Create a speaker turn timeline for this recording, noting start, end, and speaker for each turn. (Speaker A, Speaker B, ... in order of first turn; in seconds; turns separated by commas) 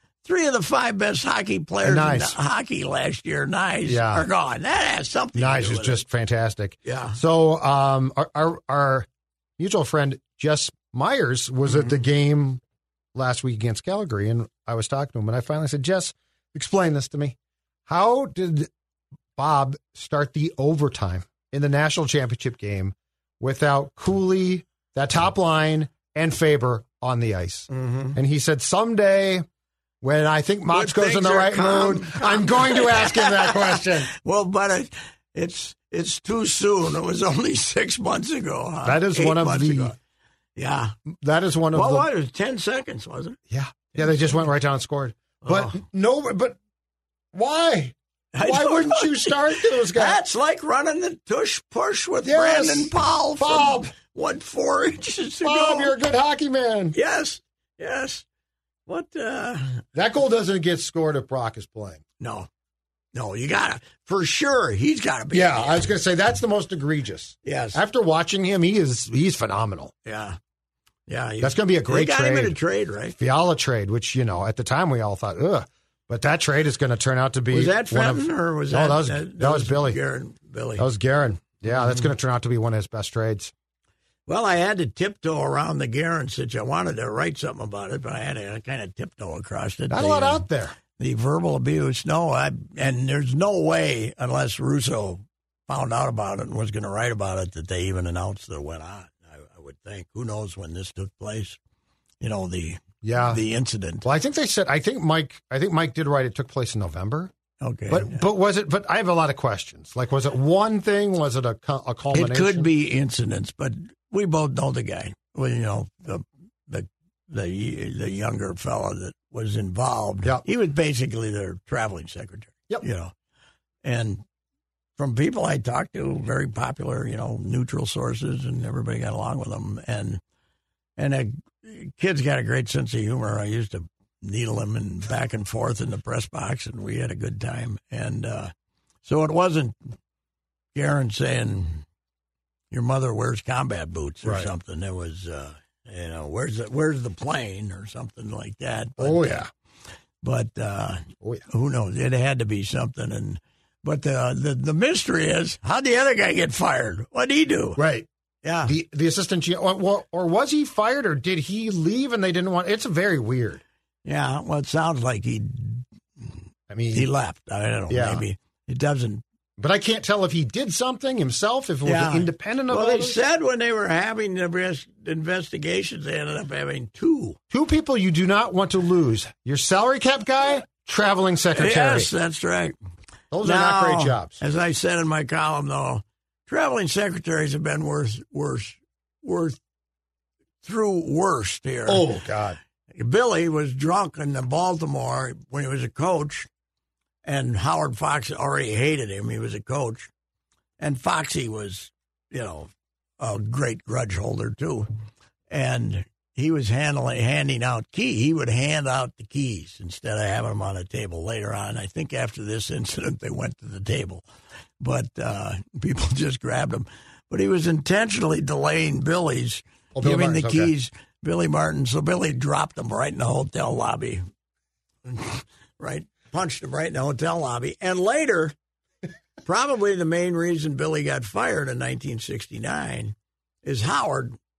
Speaker A: 0.2-6.0, Speaker B: 1.8-2.4, Speaker B: 3.8-4.3, Speaker B: 5.3-12.6, Speaker A: 6.8-7.2, Speaker B: 13.1-17.3, Speaker B: 17.9-18.7, Speaker B: 19.4-29.4, Speaker A: 27.7-28.1, Speaker B: 30.0-34.1, Speaker A: 30.7-40.0, Speaker B: 38.8-39.9, Speaker A: 40.5-41.0, Speaker B: 41.1-42.1, Speaker A: 41.7-43.4, Speaker B: 43.5-46.6, Speaker A: 45.4-45.8, Speaker B: 47.3-50.2, Speaker A: 48.3-55.9, Speaker B: 52.2-53.9, Speaker B: 55.4-57.0, Speaker A: 56.9-58.2, Speaker A: 58.9-59.8, Speaker B: 60.0-62.0, Speaker A: 62.2-62.5, Speaker A: 63.1-65.9, Speaker B: 65.3-69.9, Speaker A: 67.5-67.8, Speaker A: 70.0-70.4, Speaker A: 71.1-73.2, Speaker B: 71.4-72.6, Speaker B: 73.2-80.0, Speaker A: 77.5-80.9, Speaker B: 80.8-83.5, Speaker A: 84.3-101.6, Speaker B: 89.9-90.7, Speaker A: 102.2-104.0, Speaker B: 103.0-103.4, Speaker B: 104.0-107.3, Speaker A: 107.6-108.2, Speaker B: 107.9-112.7, Speaker A: 112.1-123.1, Speaker A: 123.8-124.2, Speaker A: 125.0-130.2, Speaker A: 131.0-138.5, Speaker A: 139.1-139.8, Speaker A: 140.7-141.8, Speaker A: 142.7-149.4, Speaker B: 144.2-144.5, Speaker B: 149.0-149.5, Speaker A: 150.2-157.8, Speaker B: 157.8-158.1, Speaker A: 158.4-158.7, Speaker B: 158.6-163.6, Speaker A: 164.1-166.3, Speaker B: 166.7-167.1, Speaker A: 166.9-169.2, Speaker B: 167.9-168.2, Speaker B: 169.6-173.2, Speaker A: 171.8-177.4, Speaker B: 177.5-182.1, Speaker A: 181.6-182.8, Speaker B: 183.3-184.4, Speaker A: 183.4-189.6, Speaker A: 190.6-192.1, Speaker B: 191.9-192.6, Speaker A: 192.9-196.5, Speaker A: 197.2-200.1, Speaker A: 200.8-204.9, Speaker A: 205.5-214.2, Speaker A: 214.8-224.2, Speaker B: 219.9-220.7, Speaker A: 225.1-228.6, Speaker A: 229.4-234.4